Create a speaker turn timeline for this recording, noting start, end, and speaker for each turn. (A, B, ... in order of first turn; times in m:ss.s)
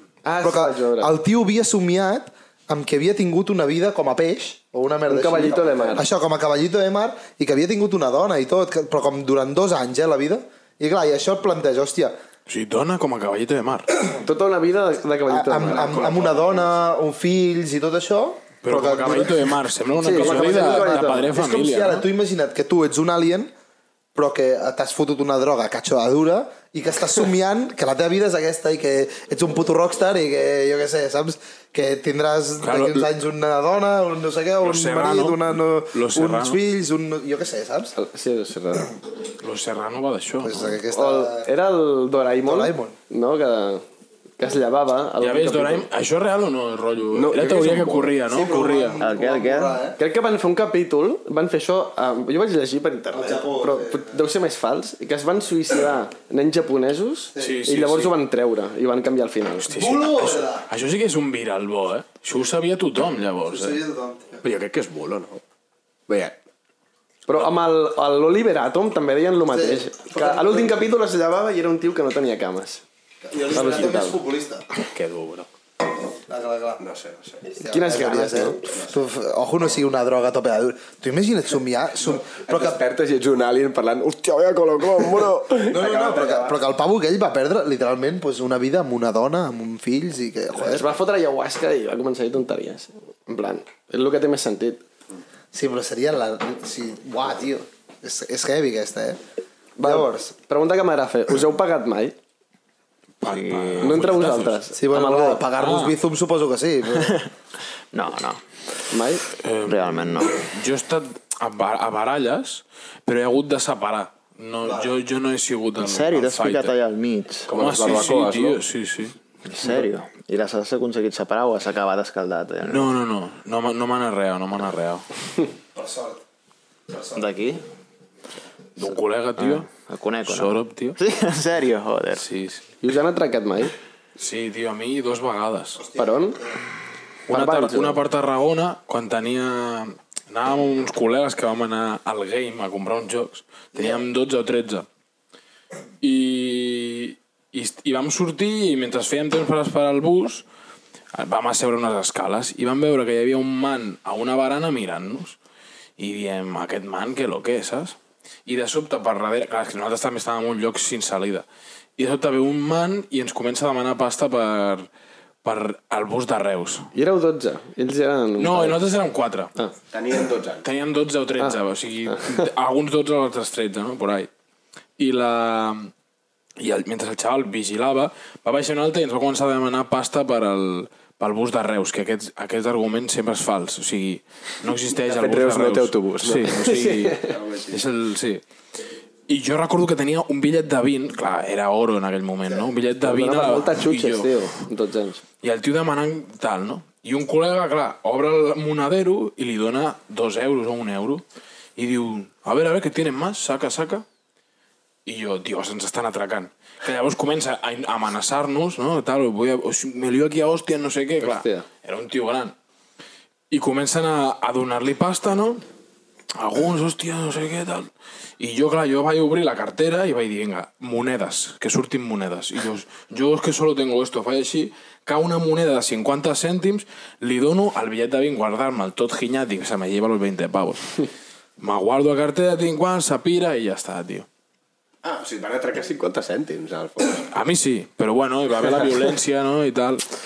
0:00.2-0:01.2 A
0:00.4-0:12.2 B
0:05.1-0:06.1 A
0:05.5-0:06.0 C
0:12.5-0:13.9 D
0:14.2-0:16.5 A
0:15.3-0:19.6 B
0:18.6-0:22.1 D
0:20.0-0:21.3 A
0:20.2-0:23.5 B
0:24.2-0:38.0 B
0:32.6-0:33.1 D
0:34.6-0:36.6 D
0:38.0-0:38.9 A
0:39.4-0:40.8 D
0:40.4-0:41.5 B
0:40.9-0:43.8 A
0:42.4-0:43.0 B
0:44.4-0:45.9 A
0:45.2-0:49.0 D
0:47.1-0:48.1 C
0:48.3-0:50.0 B
0:49.0-0:49.8 E
0:50.0-0:59.8 A
0:53.1-0:54.1 B
0:57.4-0:58.1 D
0:59.6-1:03.8 D
0:59.7-1:00.7 B
1:03.5-1:04.4 B
1:04.4-1:05.4 C
1:06.1-1:06.4 C
1:07.3-1:12.8 A
1:09.5-1:10.8 B
1:13.3-1:14.7 B
1:13.5-1:14.2 A
1:14.8-1:15.5 C
1:16.3-1:16.8 B
1:16.8-1:17.6 C
1:17.6-1:18.6 A
1:17.6-1:22.8 B
1:22.1-1:26.6 C
1:25.7-1:30.9 B
1:30.6-1:34.8 A
1:35.5-1:39.2 B
1:39.8-1:42.2 A
1:39.8-1:40.4 B
1:43.2-1:44.6 D
1:43.2-1:44.2 E
1:43.8-1:45.5 A
1:44.8-1:47.3 B
1:45.6-1:46.0 D
1:47.9-1:48.4 E
1:48.9-1:49.3 A
1:49.4-1:56.8 D
1:49.6-1:50.5 E
1:55.8-1:57.5 E
1:57.5-1:58.6 C
1:57.5-1:59.2 D
1:59.5-2:03.0 E
2:02.6-2:05.1 D
2:05.8-2:06.2 B
2:06.9-2:07.2 B
2:07.2-2:07.6 E
2:08.8-2:09.7 D
2:09.4-2:12.2 E
2:10.2-2:11.0 D
2:12.1-2:12.7 D
2:12.8-2:13.7 A
2:14.2-2:15.8 D
2:15.8-2:16.6 B
2:16.0-2:16.4 A
2:17.3-2:18.0 A
2:17.3-2:24.9 D
2:23.8-2:24.0 B
2:26.0-2:30.5 D
2:31.1-2:35.4 D
2:36.0-2:41.5 D
2:42.0-2:44.9 D
2:45.4-2:46.9 D
2:46.9-2:48.8 A
2:48.4-2:49.6 D
2:49.9-2:50.7 C
2:50.6-2:54.3 D
2:52.1-2:52.4 A
2:55.0-2:55.9 D
2:56.6-3:08.4 D
3:04.9-3:06.6 C
3:06.5-3:07.4 A
3:07.2-3:07.8 C
3:09.3-3:14.6 D
3:13.0-3:15.2 A
3:15.4-3:21.2 D
3:21.8-3:24.0 D
3:25.0-3:32.6 D
3:31.2-3:31.7 A
3:33.5-3:35.6 D
3:36.4-3:51.1 D
3:51.6-3:54.3 D
3:55.0-3:57.3 C
3:57.3-4:00.0 D